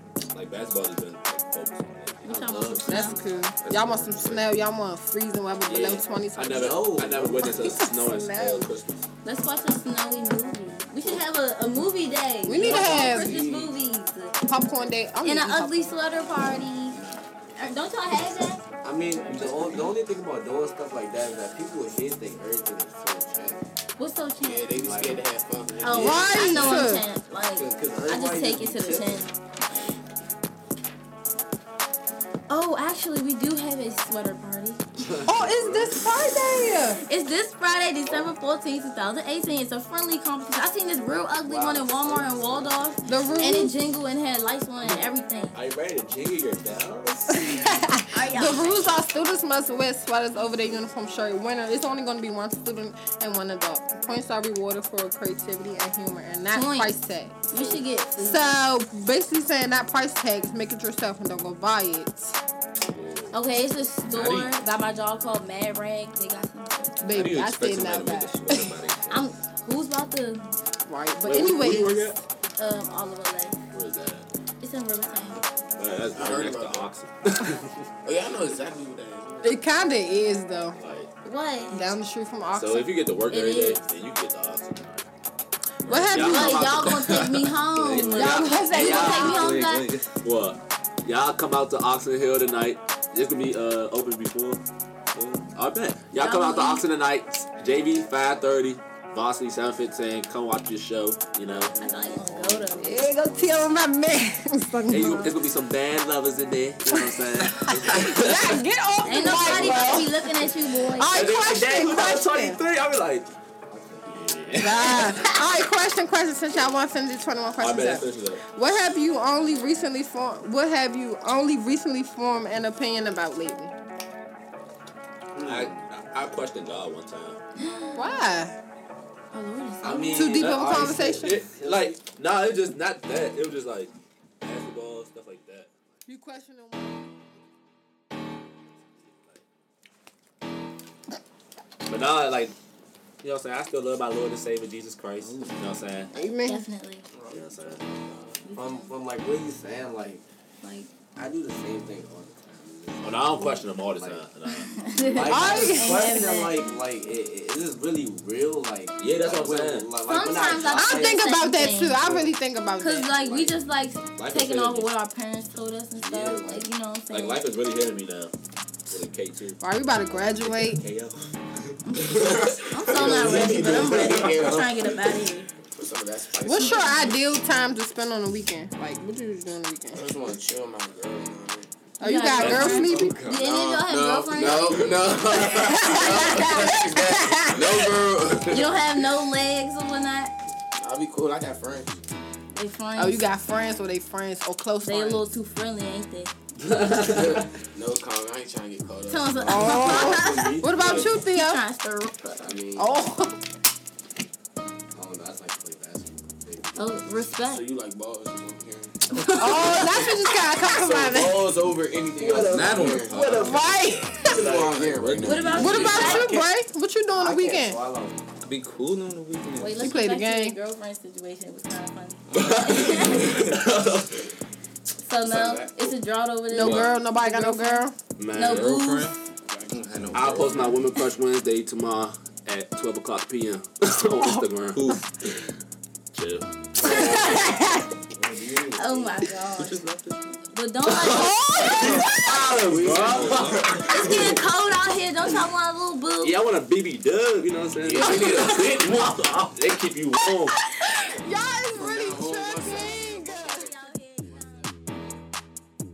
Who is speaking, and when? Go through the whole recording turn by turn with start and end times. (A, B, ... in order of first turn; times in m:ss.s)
0:00.3-0:02.6 A
0:02.2-0:03.2 B
0:02.3-0:03.2 C
0:02.9-0:06.9 D
0:03.6-0:04.5 E
0:05.6-0:09.1 A
0:06.5-0:07.8 C
0:07.4-0:08.7 D
0:09.2-0:14.4 B
0:12.4-0:13.4 D
0:12.6-0:13.7 C
0:14.4-0:16.0 D
0:15.2-0:17.0 B
0:16.9-0:17.2 F
0:17.6-0:18.6 B
0:18.8-0:23.6 C
0:19.3-0:19.8 E
0:24.0-0:24.7 B
0:24.4-0:26.4 F
0:24.8-0:25.2 C
0:25.8-0:26.9 C
0:25.8-0:29.3 B
0:26.0-0:27.0 D
0:27.5-0:29.3 C
0:32.5-0:34.8 B
0:35.0-0:36.4 A
0:35.2-0:37.0 D
0:37.0-0:45.6 B
0:41.4-0:43.1 C
0:43.1-0:43.7 D
0:44.8-0:47.7 A
0:47.4-0:57.4 D
0:48.1-0:49.0 B
0:56.5-0:56.9 B
0:57.5-0:58.6 B
0:58.2-1:02.4 D
1:02.9-1:03.3 A
1:03.3-1:07.0 B
1:04.1-1:04.6 E
1:07.0-1:08.7 D
1:07.1-1:09.3 E
1:09.1-1:10.5 B
1:10.8-1:12.2 D
1:11.2-1:12.2 A
1:12.6-1:13.6 B
1:13.7-1:14.3 A
1:14.6-1:15.4 B
1:15.8-1:17.8 A
1:16.1-1:16.9 F
1:18.0-1:19.6 F
1:19.4-1:20.8 D
1:20.8-1:21.1 A
1:21.2-1:21.8 B
1:21.7-1:22.9 D
1:22.5-1:25.0 A
1:23.3-1:23.8 B
1:25.8-1:26.3 E
1:25.8-1:26.9 D
1:26.0-1:27.6 A
1:26.2-1:29.9 B
1:27.7-1:30.1 E
1:28.0-1:29.5 D
1:28.6-1:29.5 A
1:30.2-1:34.6 A
1:35.5-1:41.7 A
1:36.2-1:36.8 B
1:41.4-1:43.6 C
1:41.8-1:43.0 B
1:42.8-1:45.4 D
1:44.9-1:48.6 A
1:47.5-1:52.6 D
1:49.0-1:51.1 B
1:49.2-1:50.0 A
1:51.1-1:53.3 A
1:53.7-1:54.6 C
1:54.1-1:55.3 A
1:54.6-2:03.7 D
1:57.6-1:58.4 A
2:05.3-2:05.8 C
2:05.4-2:07.4 A
2:07.6-2:08.2 B
2:08.0-2:08.5 D
2:09.3-2:10.4 B
2:09.8-2:12.0 C
2:10.1-2:11.4 D
2:10.3-2:15.7 A
2:16.0-2:17.0 D
2:19.0-2:19.4 A
2:21.8-2:22.5 A
2:23.2-2:26.1 A
2:25.2-2:26.1 E
2:26.1-2:26.6 D
2:26.4-2:27.0 B
2:27.1-2:28.4 F
2:27.3-2:27.9 A
2:28.4-2:28.9 B
2:28.5-2:30.2 C
2:30.6-2:30.9 B
2:31.2-2:34.2 C
2:33.0-2:34.8 A
2:34.7-2:36.7 B
2:35.0-2:41.2 C
2:35.3-2:36.2 D
2:39.0-2:39.9 A
2:40.0-2:42.0 B
2:40.7-2:43.3 D
2:42.8-2:47.4 B
2:44.2-2:44.9 A
2:45.9-2:46.7 C
2:47.1-2:48.3 A
2:48.8-2:51.2 A
2:49.6-2:50.8 D
2:51.9-2:55.5 B
2:52.0-2:57.2 F
2:52.9-2:54.5 A
2:53.4-2:54.5 C
2:56.4-3:00.2 D
2:59.9-3:01.7 F
3:02.0-3:03.2 D
3:02.0-3:04.9 B
3:02.4-3:03.2 A
3:02.5-3:08.9 F
3:05.3-3:08.1 D
3:08.5-3:10.3 B
3:10.8-3:12.0 F
3:12.5-3:13.2 B
3:13.0-3:15.2 D
3:14.8-3:16.3 B
3:16.6-3:17.5 A
3:17.0-3:20.0 F
3:19.1-3:22.6 B
3:19.4-3:21.6 D
3:19.7-3:21.1 A
3:22.4-3:22.9 C
3:22.8-3:23.4 D
3:24.9-3:27.0 C
3:26.8-3:27.6 B
3:27.4-3:33.5 F
3:29.1-3:29.8 B
3:29.3-3:31.5 D
3:32.2-3:33.0 C
3:32.4-3:36.0 E
3:33.1-3:34.4 D
3:34.1-3:36.4 F
3:34.4-3:34.8 C
3:35.2-3:36.3 B
3:35.5-3:36.3 A
3:35.6-3:37.8 D
3:37.1-3:38.3 C
3:38.4-3:39.9 E
3:39.6-3:43.4 B
3:39.8-3:40.6 D
3:42.3-3:44.2 A
3:42.8-3:43.0 E
3:45.0-3:49.1 B
3:45.2-3:46.0 F
3:46.5-3:48.0 D
3:46.5-3:46.9 E
3:48.2-3:48.8 A
3:48.4-3:50.9 E
3:49.5-3:49.8 F
3:50.1-3:55.5 A
3:54.2-3:54.4 D
3:54.7-3:55.0 E
3:56.1-3:56.5 A
3:56.8-3:57.9 D
3:56.8-3:57.4 C
3:56.8-3:57.5 B
3:58.1-3:59.3 C
3:58.7-3:59.8 B
3:59.6-4:00.4 E
4:00.5-4:01.3 B
4:01.0-4:04.4 A
4:01.0-4:02.5 D
4:02.7-4:04.2 E
4:03.0-4:03.4 F
4:03.1-4:03.4 C
4:03.9-4:06.3 B
4:06.2-4:10.6 A
4:07.8-4:09.1 F
4:10.5-4:13.7 D
4:11.7-4:13.7 F
4:13.0-4:14.7 B
4:14.4-4:14.7 F